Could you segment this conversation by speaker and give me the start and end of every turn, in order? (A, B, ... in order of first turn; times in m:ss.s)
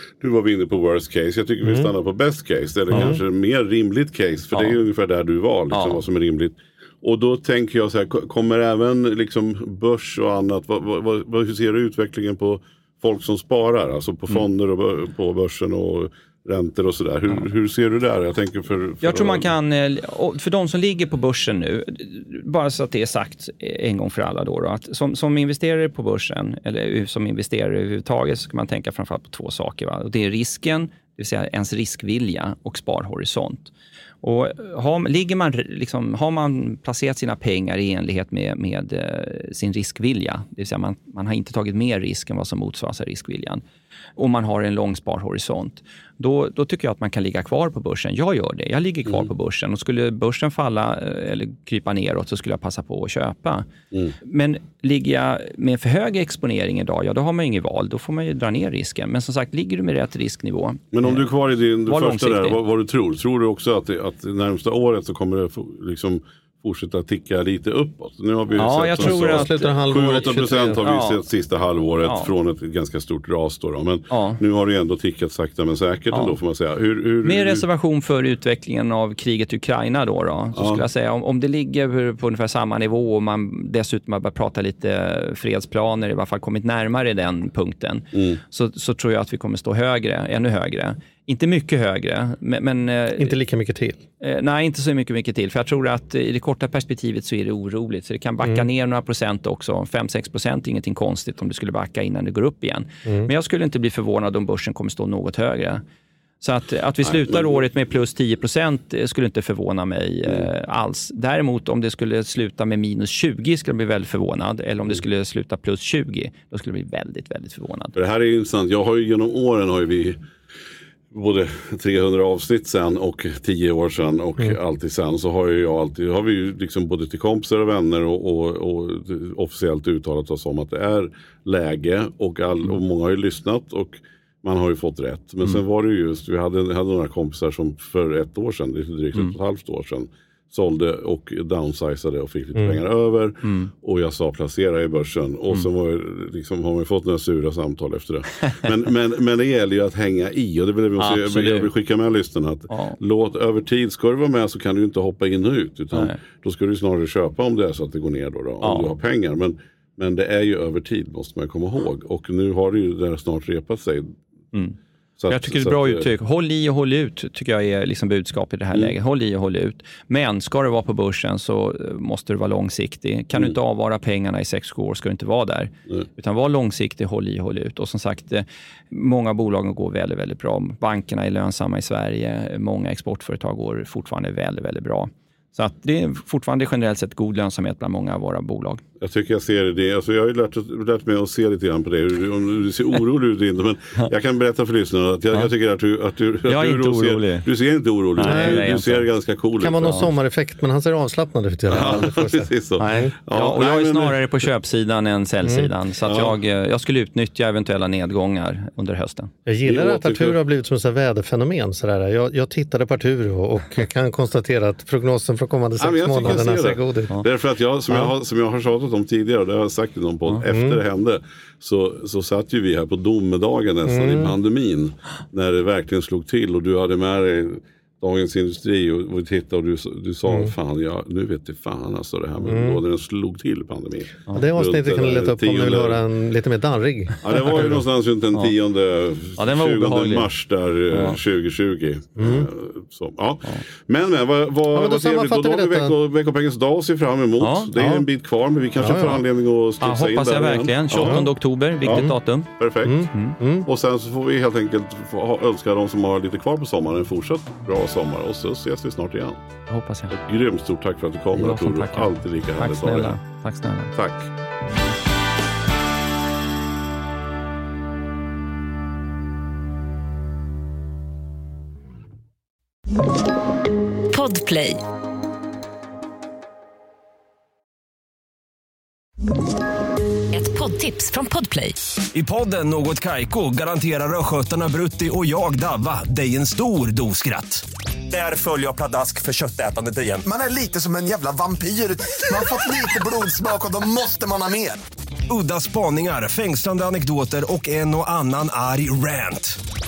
0:00.2-0:19.5 A
0:01.6-0:01.9 B
0:02.9-0:03.2 C
0:02.9-0:03.2 B
0:05.7-0:06.0 C
0:19.0-0:43.6 C
0:44.2-0:53.7 C
0:54.2-1:01.3 C
1:00.9-1:17.6 A
1:01.9-1:02.6 C
1:08.6-1:09.7 C
1:09.0-1:10.8 B
1:10.8-1:11.2 C
1:12.0-1:12.3 C
1:14.1-1:14.4 C
1:16.1-1:16.4 C
1:17.2-1:33.3 C
1:20.6-1:20.8 A
1:28.1-1:28.4 A
1:33.2-1:34.0 B
1:34.2-1:45.8 C
1:43.0-1:43.3 B
1:46.4-1:58.0 C
1:47.1-1:47.6 A
1:58.0-2:00.2 A
2:01.1-2:44.2 A
2:23.4-2:23.7 C
2:31.0-2:31.7 C
2:32.7-2:33.0 C
2:35.9-2:36.2 C
2:38.6-2:38.9 C
2:45.2-2:46.1 A
2:45.3-3:08.8 C
3:09.0-3:20.1 A
3:16.5-3:17.5 C
3:18.2-3:19.1 C
3:18.2-3:18.6 B
3:19.6-3:23.1 B
3:21.7-3:24.4 A
3:22.8-3:29.3 C
3:25.4-3:25.7 B
3:29.5-3:37.2 B
3:29.6-3:30.4 A
3:35.8-3:56.0 A
3:40.4-3:40.8 B
3:43.9-3:44.4 B
3:50.3-3:50.5 B
3:52.4-3:52.8 B
3:54.3-3:57.2 B
3:57.2-4:11.3 A
3:59.4-4:00.3 C
4:00.9-4:01.2 C
4:02.2-4:02.5 B
4:04.7-4:05.9 B
4:07.4-4:07.7 C
4:07.8-4:08.0 B
4:08.8-4:09.2 B
4:09.8-4:12.5 C
4:11.0-4:11.2 B
4:11.8-4:13.1 A
4:11.9-4:12.1 B
4:12.8-4:13.7 B
4:13.1-4:13.4 C
4:13.6-4:19.4 A
4:19.7-4:20.2 C
4:20.1-4:23.2 A
4:21.3-4:23.9 C
4:24.0-4:24.3 A
4:34.1-4:34.8 D
4:40.3-4:41.8 D
4:42.1-4:50.2 E
4:50.2-4:54.8 F
4:55.3-4:59.6 E